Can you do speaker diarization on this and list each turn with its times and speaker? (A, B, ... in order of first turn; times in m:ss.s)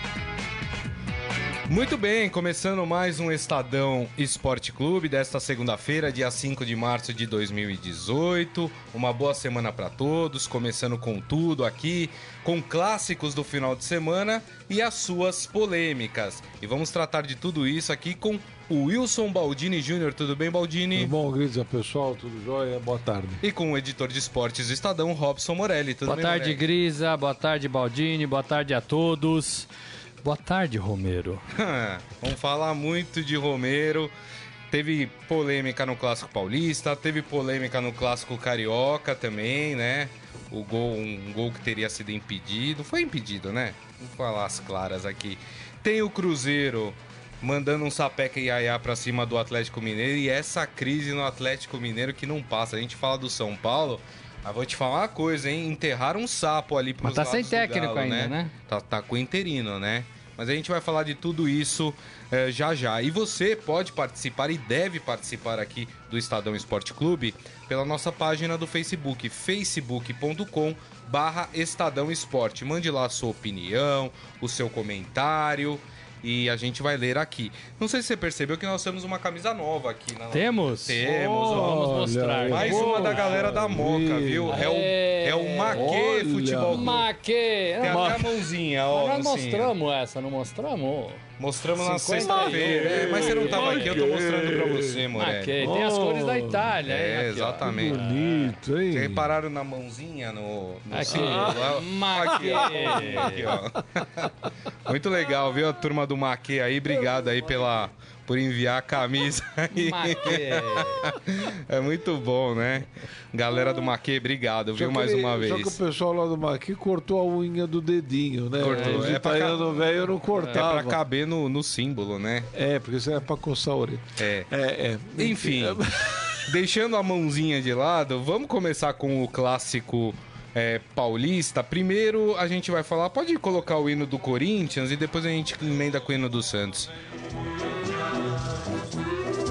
0:01.7-0:21.1 A
0:20.9-0:23.4 B
0:23.4-0:26.6 A
0:26.1-0:29.7 C
0:30.2-0:31.4 C
0:31.5-0:34.1 A
0:34.7-1:27.1 A
0:57.0-0:58.5 C
1:20.3-1:23.6 C
1:21.0-1:24.7 B
1:24.5-1:26.0 C
1:25.7-1:27.0 B
1:26.7-1:28.2 C
1:27.8-1:29.7 A
1:27.8-1:28.3 B
1:28.9-1:31.2 C
1:31.4-1:35.6 A
1:31.8-1:35.1 B
1:32.2-1:34.0 C
1:35.2-1:38.2 C
1:35.6-1:36.7 B
1:36.8-1:44.3 A
1:37.6-1:39.4 B
1:40.9-1:43.6 C
1:41.0-1:43.7 B
1:44.9-1:55.8 A
1:49.7-1:51.1 C
1:54.8-2:01.0 B
1:58.6-1:59.8 A
1:58.6-1:59.2 C
2:00.3-2:00.6 C
2:00.5-2:02.5 A
2:02.5-2:06.5 B
2:04.2-2:04.5 A
2:05.2-2:05.9 A
2:06.4-2:16.9 A